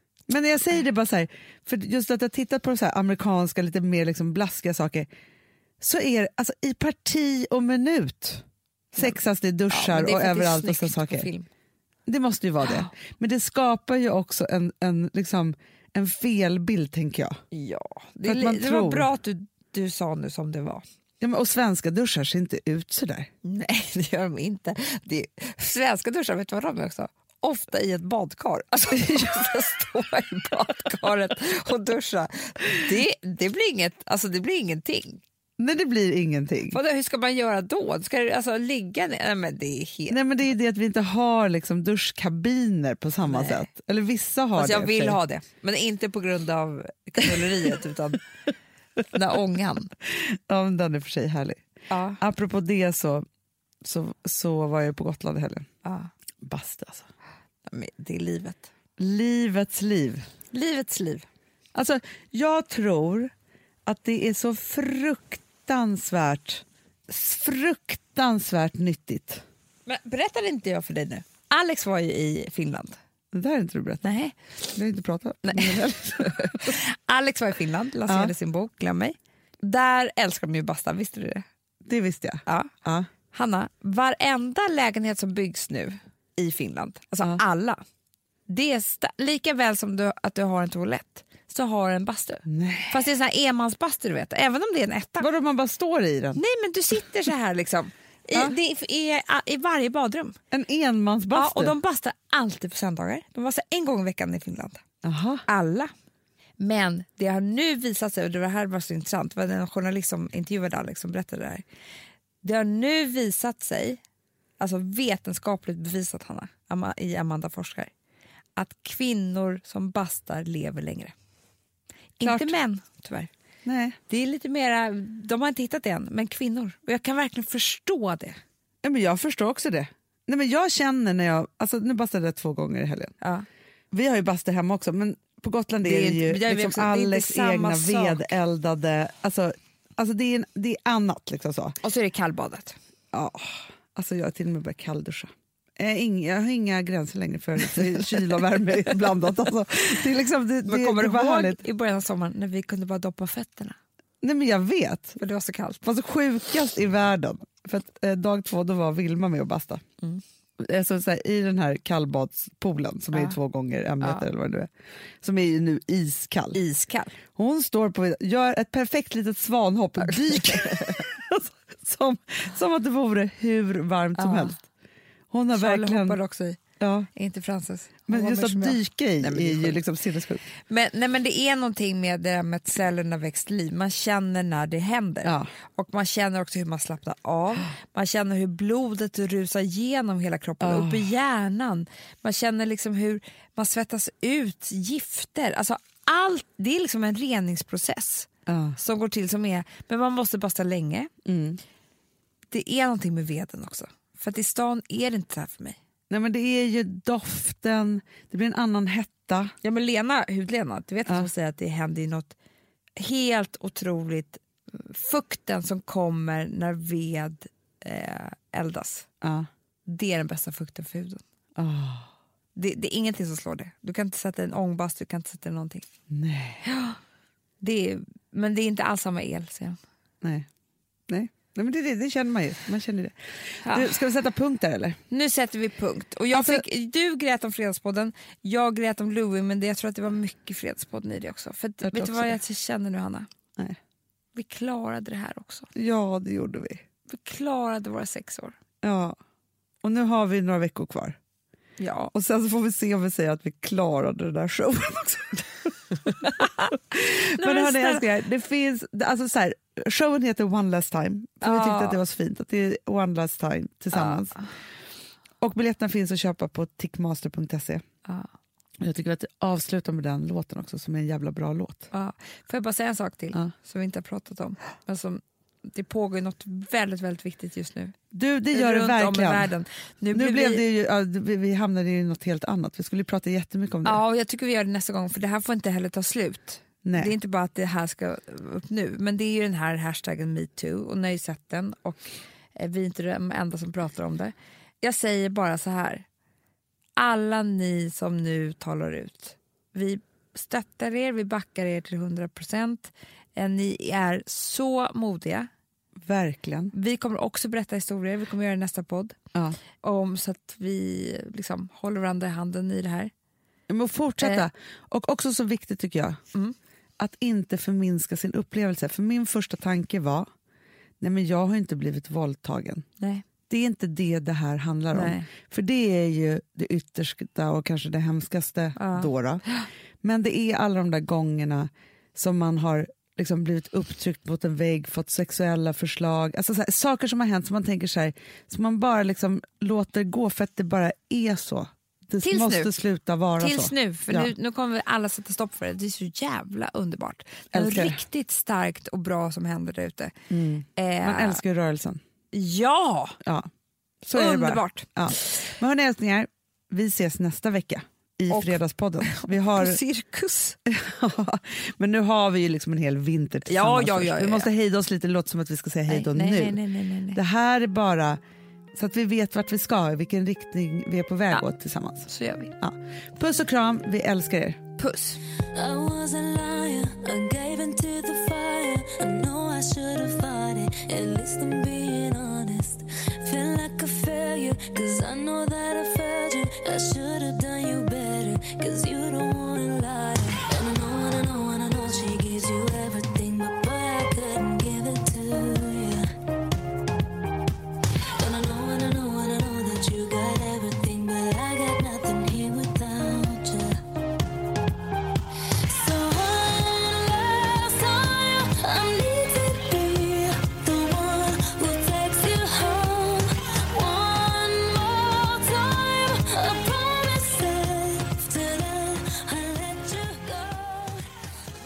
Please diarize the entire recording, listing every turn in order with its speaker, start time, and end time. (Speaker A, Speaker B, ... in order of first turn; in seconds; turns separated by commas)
Speaker A: 0.3-5.1, Speaker A: 5.8-11.3, Speaker B: 9.7-11.5, Speaker A: 12.1-17.4, Speaker B: 12.6-12.9, Speaker B: 17.5-20.8, Speaker A: 18.2-19.1, Speaker A: 21.2-23.3, Speaker B: 23.4-35.2, Speaker A: 35.6-36.8, Speaker B: 36.7-40.2, Speaker A: 40.1-45.2, Speaker B: 43.3-43.7, Speaker B: 44.5-48.2, Speaker B: 49.1-49.9, Speaker A: 50.1-51.6, Speaker B: 51.9-52.2, Speaker A: 52.2-53.2, Speaker A: 53.8-55.7, Speaker B: 55.8-56.1, Speaker A: 56.4-57.1, Speaker B: 57.6-58.7, Speaker A: 59.0-60.2, Speaker B: 60.5-61.2, Speaker A: 61.7-63.3, Speaker A: 63.9-69.4, Speaker B: 69.8-73.0, Speaker A: 73.3-74.1, Speaker B: 74.0-74.3, Speaker A: 74.7-76.8, Speaker B: 75.5-81.4, Speaker A: 78.1-78.3, Speaker A: 81.8-83.1, Speaker B: 82.5-82.7, Speaker B: 83.3-87.8, Speaker B: 88.5-95.3, Speaker A: 92.5-93.0, Speaker A: 95.2-96.4, Speaker B: 96.3-100.4, Speaker A: 100.5-101.7, Speaker B: 101.3-104.8, Speaker A: 105.0-105.5, Speaker B: 105.5-105.9, Speaker B: 106.6-111.6, Speaker B: 112.4-114.0, Speaker B: 114.6-117.9, Speaker B: 118.5-121.1, Speaker B: 122.2-123.3, Speaker A: 122.2-122.5, Speaker A: 123.6-124.0, Speaker B: 124.1-128.4, Speaker A: 128.8-133.1, Speaker B: 133.2-133.4, Speaker A: 133.9-141.8, Speaker B: 135.8-138.3, Speaker B: 141.8-142.8, Speaker A: 143.1-151.6, Speaker B: 150.7-153.8, Speaker A: 154.2-155.2, Speaker B: 155.2-155.8, Speaker A: 155.8-159.8, Speaker A: 160.6-164.7, Speaker B: 164.0-164.2, Speaker A: 165.2-166.6, Speaker B: 166.5-167.1, Speaker A: 167.3-174.6, Speaker B: 170.0-170.9, Speaker B: 174.2-174.5, Speaker A: 175.3-176.2, Speaker B: 175.5-176.6, Speaker A: 176.8-177.1, Speaker B: 177.1-179.8, Speaker A: 178.1-180.4, Speaker B: 180.7-201.1, Speaker A: 185.2-185.5, Speaker A: 190.6-191.1, Speaker A: 198.5-198.8, Speaker A: 201.2-201.6, Speaker B: 202.5-205.8, Speaker A: 206.1-209.5, Speaker B: 209.6-212.3, Speaker B: 212.9-219.1, Speaker A: 219.2-219.5, Speaker B: 219.8-221.2, Speaker A: 221.6-222.1, Speaker B: 222.5-225.8, Speaker A: 226.1-226.6, Speaker B: 226.6-227.0, Speaker B: 227.6-229.8, Speaker A: 231.1-235.0, Speaker B: 233.6-233.9, Speaker B: 235.1-243.3, Speaker A: 236.3-236.6, Speaker A: 241.8-242.4, Speaker B: 244.3-245.7, Speaker A: 245.7-246.8, Speaker B: 247.1-248.6, Speaker A: 248.8-249.2, Speaker A: 249.8-251.2, Speaker B: 251.8-252.1, Speaker A: 252.1-264.4, Speaker B: 256.2-256.7, Speaker B: 257.4-258.0, Speaker B: 261.4-262.0, Speaker B: 263.9-264.4, Speaker A: 265.4-267.8, Speaker A: 268.8-271.9, Speaker B: 271.9-278.0, Speaker A: 278.1-279.5, Speaker B: 278.5-280.6, Speaker A: 280.1-284.0, Speaker B: 283.8-296.1, Speaker A: 286.8-287.1, Speaker B: 297.0-305.5, Speaker A: 306.0-306.7, Speaker B: 306.7-309.2, Speaker B: 309.7-313.1, Speaker A: 313.7-316.2, Speaker B: 314.2-314.5, Speaker A: 317.0-320.3, Speaker A: 321.0-322.8, Speaker B: 323.0-323.2, Speaker A: 323.5-329.4, Speaker B: 324.9-325.3, Speaker B: 328.8-329.6, Speaker A: 330.0-344.3, Speaker B: 342.2-342.8, Speaker B: 343.4-350.1, Speaker A: 347.5-348.0, Speaker A: 350.3-352.0, Speaker B: 350.8-351.4, Speaker B: 352.3-353.2, Speaker A: 353.2-353.5, Speaker A: 354.0-359.8, Speaker B: 354.1-355.3, Speaker B: 358.3-360.6, Speaker A: 360.6-366.6, Speaker B: 363.4-364.5, Speaker B: 365.9-367.2, Speaker A: 367.1-368.2, Speaker A: 368.7-372.1, Speaker B: 372.1-372.5, Speaker A: 372.6-374.6, Speaker B: 374.8-375.2, Speaker C: 375.5-396.1, Speaker C: 398.2-403.8, Speaker C: 405.6-421.1